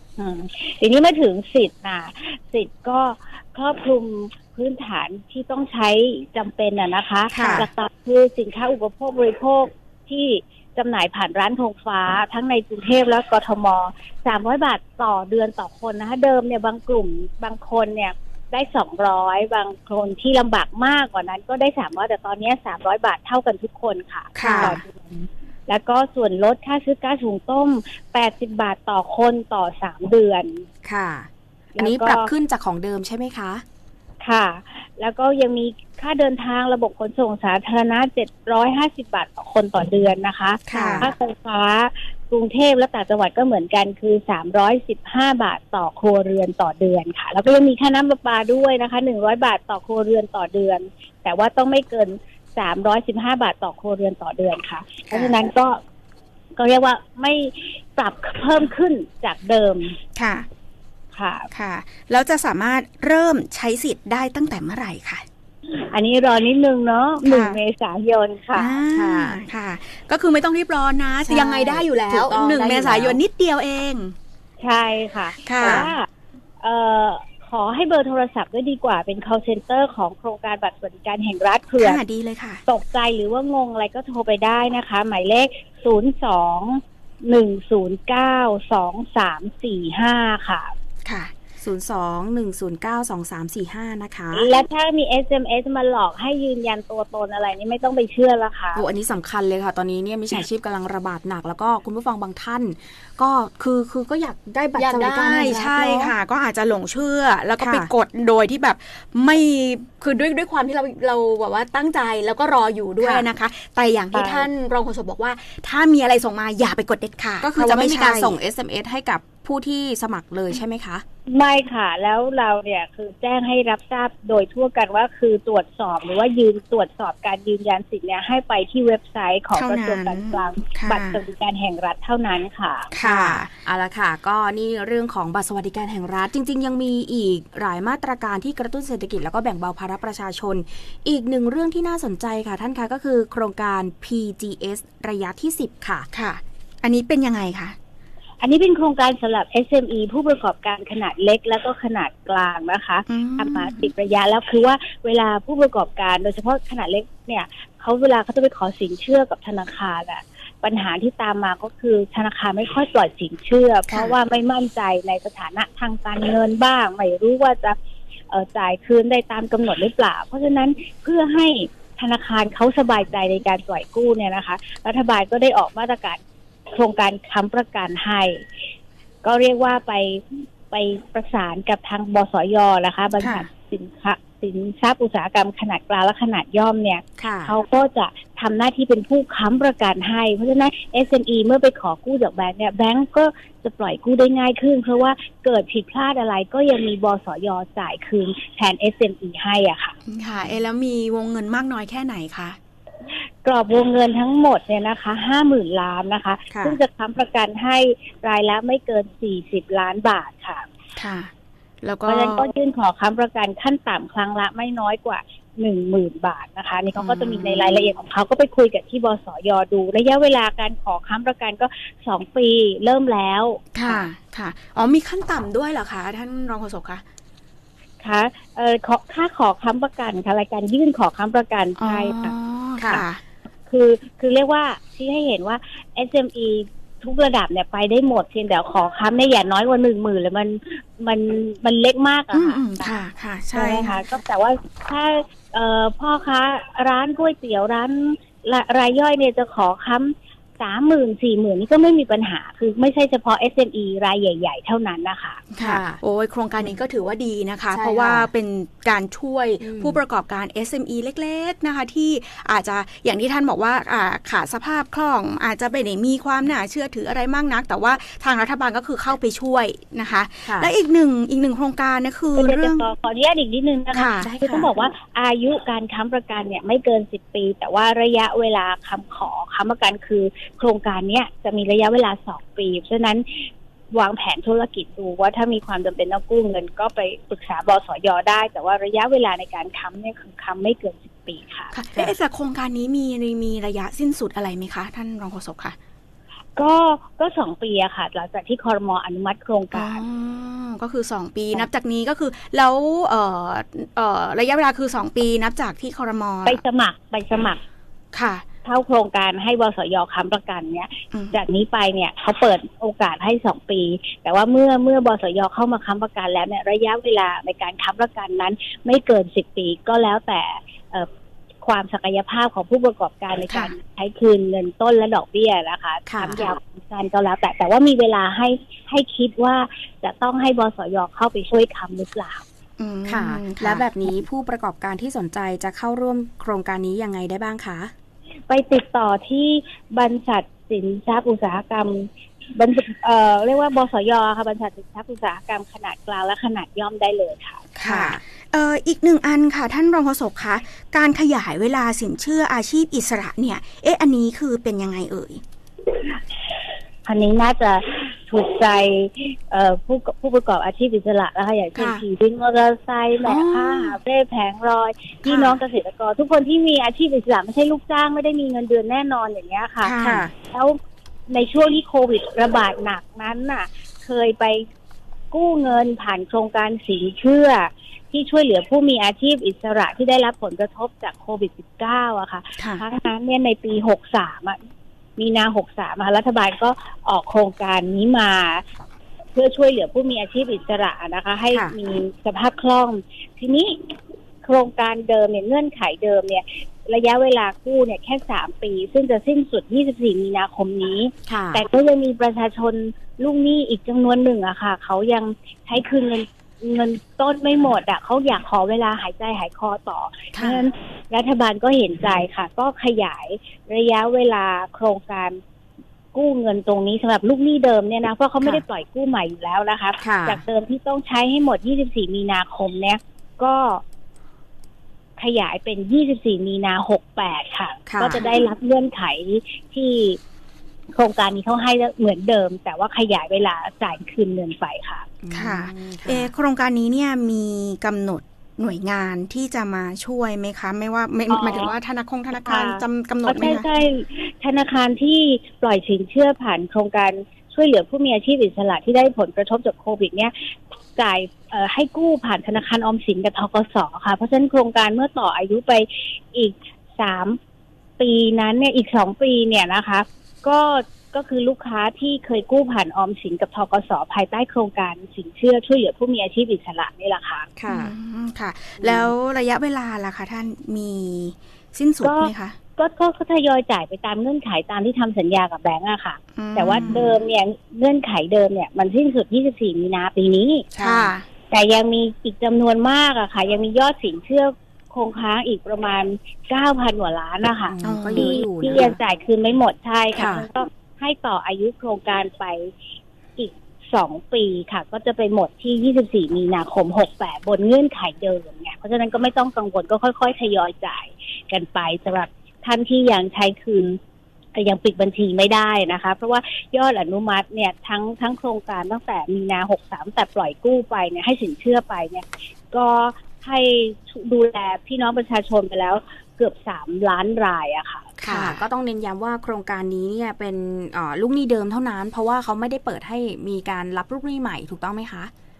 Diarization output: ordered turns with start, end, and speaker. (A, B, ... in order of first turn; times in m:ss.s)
0:00.2-0:30.6 A
0:07.3-0:07.7 B
0:24.3-0:24.8 B
0:24.4-0:24.8 C
0:30.8-0:33.6 C
0:31.8-0:32.3 A
0:34.2-0:55.8 A
0:40.7-0:41.1 B
0:40.7-0:41.1 C
0:56.6-1:00.0 A
1:00.2-1:00.5 B
1:01.1-1:01.5 A
1:01.5-1:05.2 B
1:05.7-1:08.8 A
1:07.2-1:07.6 B
1:08.5-1:14.1 B
1:08.9-1:09.4 C
1:11.2-1:13.2 C
1:14.6-1:16.1 A
1:15.4-1:15.9 B
1:15.6-1:15.9 C
1:16.6-1:22.0 A
1:21.8-1:22.6 B
1:22.7-1:30.7 A
1:31.0-1:31.3 B
1:31.6-1:34.5 C
1:34.3-1:38.8 A
1:38.7-1:46.1 C
1:44.8-1:58.4 B
1:47.6-1:47.9 C
1:53.0-1:53.2 C
1:54.1-1:54.5 A
1:57.4-2:01.0 C
2:01.3-2:12.9 A
2:09.5-2:11.2 B
2:12.9-2:13.5 B
2:13.0-2:26.1 C
2:26.1-2:27.8 B
2:28.4-2:47.8 A
2:33.1-2:33.9 B
2:43.9-2:44.1 B
2:48.3-2:58.4 A
2:59.2-3:20.0 A
3:07.2-3:07.5 C
3:20.0-3:22.6 B
3:23.4-3:30.7 A
3:31.0-3:31.3 B
3:31.8-3:32.4 B
3:32.1-3:44.1 A
3:36.9-3:37.6 B
3:43.7-3:47.0 B
3:48.0-3:52.3 A
3:51.8-3:53.2 B
3:52.8-3:53.0 C
3:53.7-4:02.9 A
4:02.3-4:04.0 B
4:03.5-4:15.4 A
4:15.5-4:32.8 B
4:15.6-4:16.0 C
4:17.7-4:18.3 C
4:19.6-4:20.0 C
4:30.4-4:30.7 C
4:32.4-4:51.7 A
4:33.9-4:34.3 B
4:34.2-4:34.7 C
4:51.7-4:55.8 B
4:56.6-5:00.0 A
4:59.7-5:06.6 B
5:06.4-5:07.6 A
5:08.1-5:08.4 B
5:08.6-5:21.1 A
5:21.6-5:32.4 A
5:26.0-5:26.5 C
5:32.8-5:33.8 B
5:33.0-5:37.9 C
5:38.5-5:47.7 A
5:47.8-5:55.4 B
5:47.8-5:48.2 C
5:57.0-6:10.8 A
6:01.7-6:02.0 B
6:03.2-6:04.0 B
6:05.2-6:05.6 B
6:09.8-6:10.2 B
6:10.0-6:10.3 C
6:11.3-6:14.6 A
6:15.3-6:24.6 A
6:25.2-6:28.6 A
6:29.3-6:55.4 A
6:41.3-6:41.6 C
6:50.3-6:50.6 B
6:56.1-7:03.8 A
7:00.0-7:00.4 C
7:05.2-7:10.2 A
7:07.8-7:08.2 C
7:10.9-7:15.1 A
7:15.2-7:16.3 C
7:15.3-7:23.6 B
7:21.3-7:21.7 A
7:22.4-7:37.4 A
7:38.0-7:47.5 A
7:47.6-7:47.9 C
7:47.7-7:52.6 B
7:48.8-7:49.1 C
7:52.0-8:00.7 A
7:56.4-7:57.1 B
8:00.7-8:01.1 C
8:00.8-8:01.2 B
8:01.5-8:12.7 A
8:07.7-8:09.0 C
8:07.8-8:08.4 B
8:10.1-8:10.4 C
8:13.4-8:24.0 A
8:24.5-8:38.1 A
8:38.2-8:45.3 C
8:38.2-8:38.6 B